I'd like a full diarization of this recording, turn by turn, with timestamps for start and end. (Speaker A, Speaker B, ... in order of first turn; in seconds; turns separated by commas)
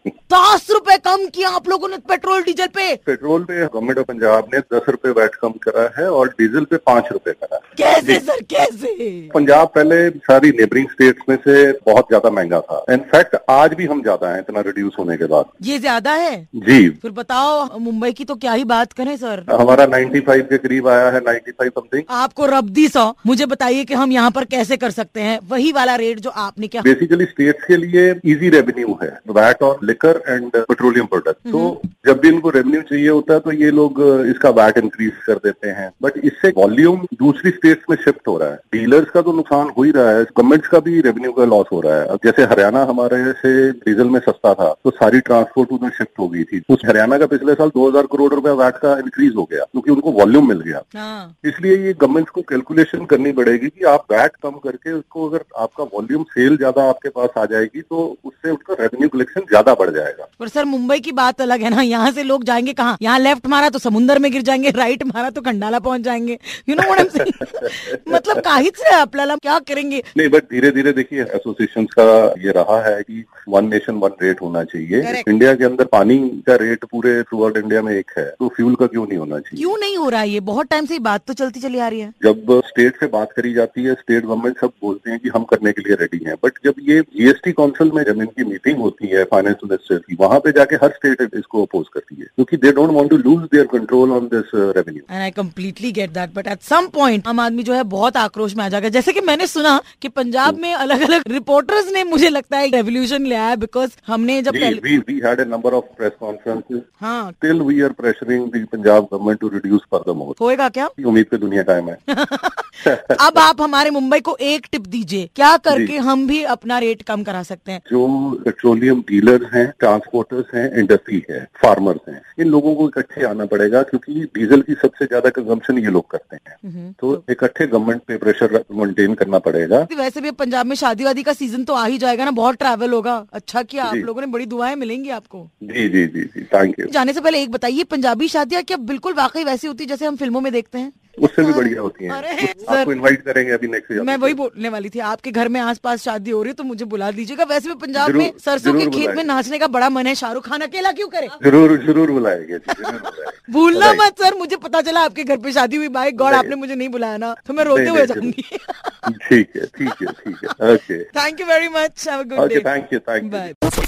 Speaker A: 0.3-3.0, Speaker B: 3.1-8.2, Speaker A: 7.8-9.3, Speaker B: 9.3-15.5, Speaker A: 15.6-16.5, Speaker B: 16.6-17.0, Speaker A: 17.0-19.5, Speaker B: 19.5-22.1, Speaker A: 22.1-26.9, Speaker B: 26.8-50.9, Speaker A: 31.5-31.8, Speaker A: 50.9-51.3, Speaker B: 51.4-60.3, Speaker A: 60.4-70.0, Speaker B: 66.8-68.4, Speaker B: 70.2-79.7, Speaker A: 75.0-75.3, Speaker A: 79.6-82.1, Speaker B: 82.2-95.0, Speaker A: 95.1-104.8, Speaker B: 104.5-106.9, Speaker A: 107.0-107.4, Speaker B: 107.4-110.4, Speaker A: 110.4-110.9, Speaker B: 111.0-112.0, Speaker A: 112.1-117.8, Speaker B: 112.8-113.5, Speaker B: 115.7-115.9, Speaker B: 117.9-129.9, Speaker A: 126.6-127.2, Speaker A: 129.9-135.5, Speaker B: 133.8-134.1, Speaker B: 135.6-136.9, Speaker A: 136.9-142.9, Speaker B: 141.2-144.4, Speaker A: 144.0-151.4, Speaker B: 148.0-149.3, Speaker B: 151.4-154.1, Speaker A: 153.5-159.1, Speaker B: 156.2-156.5, Speaker B: 157.6-158.3, Speaker B: 159.1-161.1, Speaker A: 161.1-162.7, Speaker B: 162.4-163.6, Speaker A: 163.2-163.7